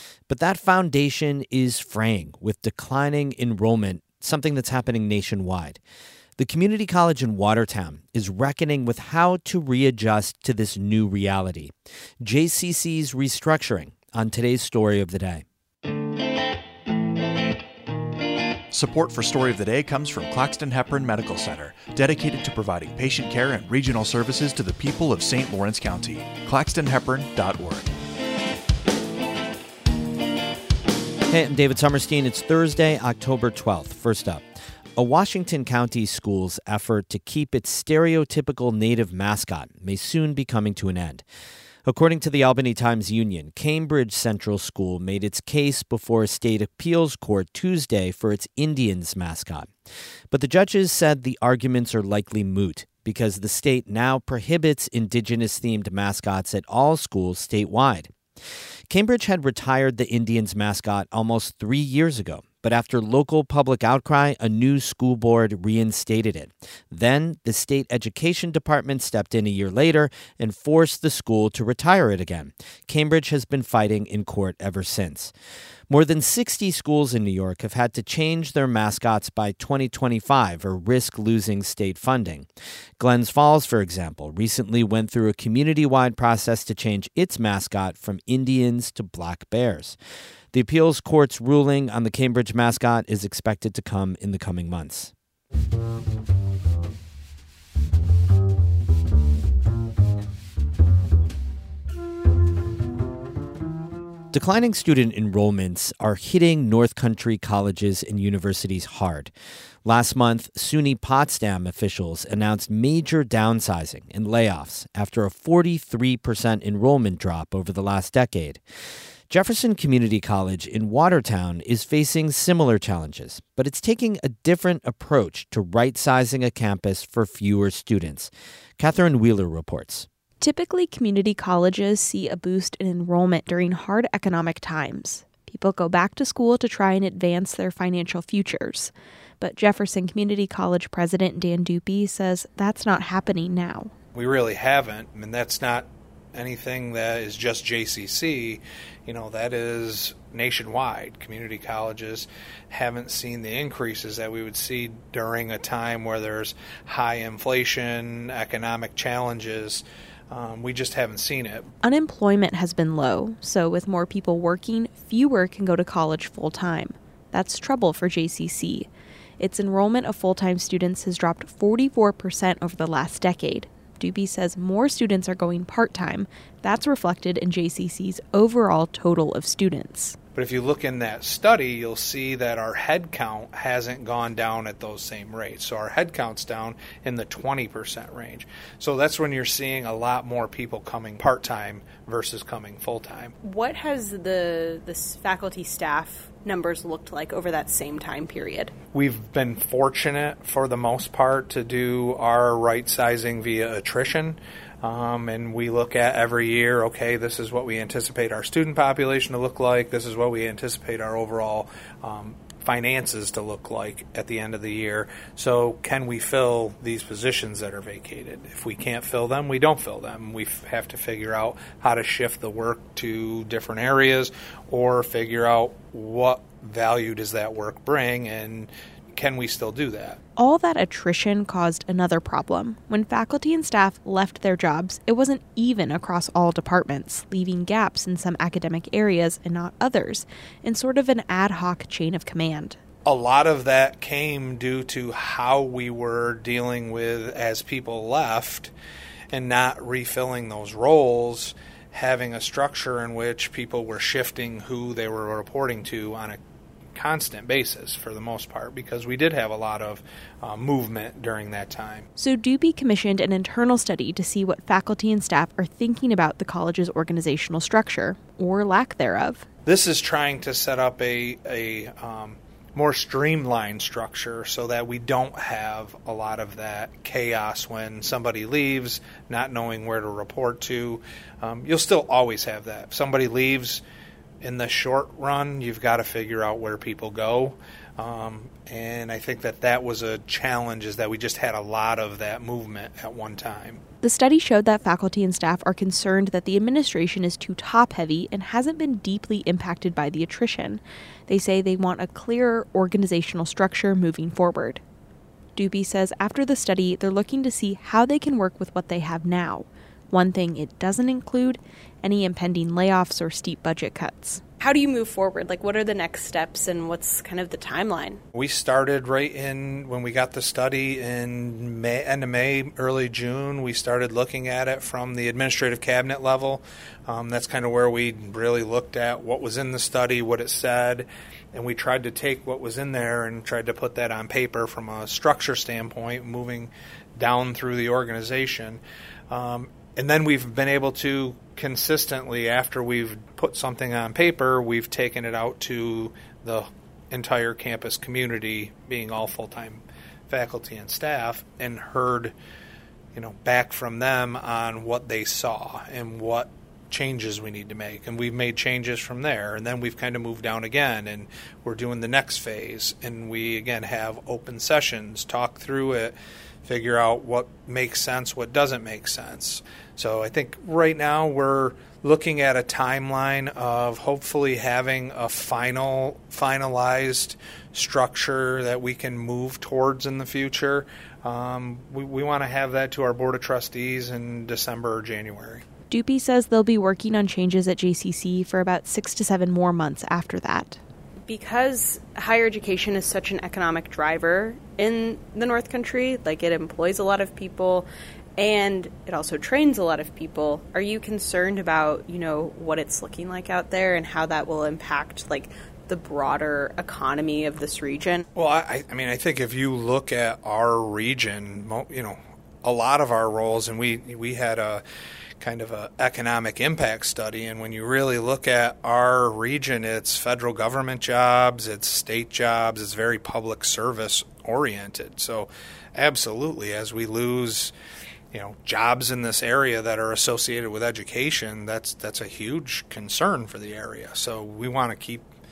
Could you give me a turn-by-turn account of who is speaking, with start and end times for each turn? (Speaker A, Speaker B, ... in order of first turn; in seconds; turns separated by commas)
Speaker A: 0.3-5.8, Speaker A: 6.4-11.7, Speaker A: 12.2-15.4, Speaker B: 18.7-27.9, Speaker A: 31.3-34.4, Speaker A: 35.0-41.2, Speaker A: 41.9-49.7, Speaker A: 50.3-58.1, Speaker A: 58.9-75.3, Speaker A: 75.9-82.5, Speaker A: 83.0-90.0, Speaker A: 90.5-95.1, Speaker A: 104.3-109.3, Speaker A: 109.8-118.6, Speaker A: 119.3-130.1, Speaker C: 130.4-143.9, Speaker D: 144.2-161.7, Speaker C: 161.8-180.2, Speaker D: 180.3-193.3, Speaker E: 193.4-198.6, Speaker C: 196.7-198.7, Speaker D: 198.9-230.2, Speaker C: 230.4-242.8, Speaker D: 243.1-248.7, Speaker D: 249.3-256.4, Speaker D: 256.9-262.1, Speaker C: 262.2-269.4, Speaker D: 269.7-283.8, Speaker D: 284.4-293.8, Speaker C: 294.0-304.8, Speaker C: 305.6-314.4, Speaker E: 314.6-318.2, Speaker D: 318.3-352.4, Speaker D: 353.1-385.6, Speaker C: 385.9-390.8, Speaker E: 391.3-408.2, Speaker D: 408.4-414.8, Speaker D: 415.4-427.7, Speaker D: 428.3-435.3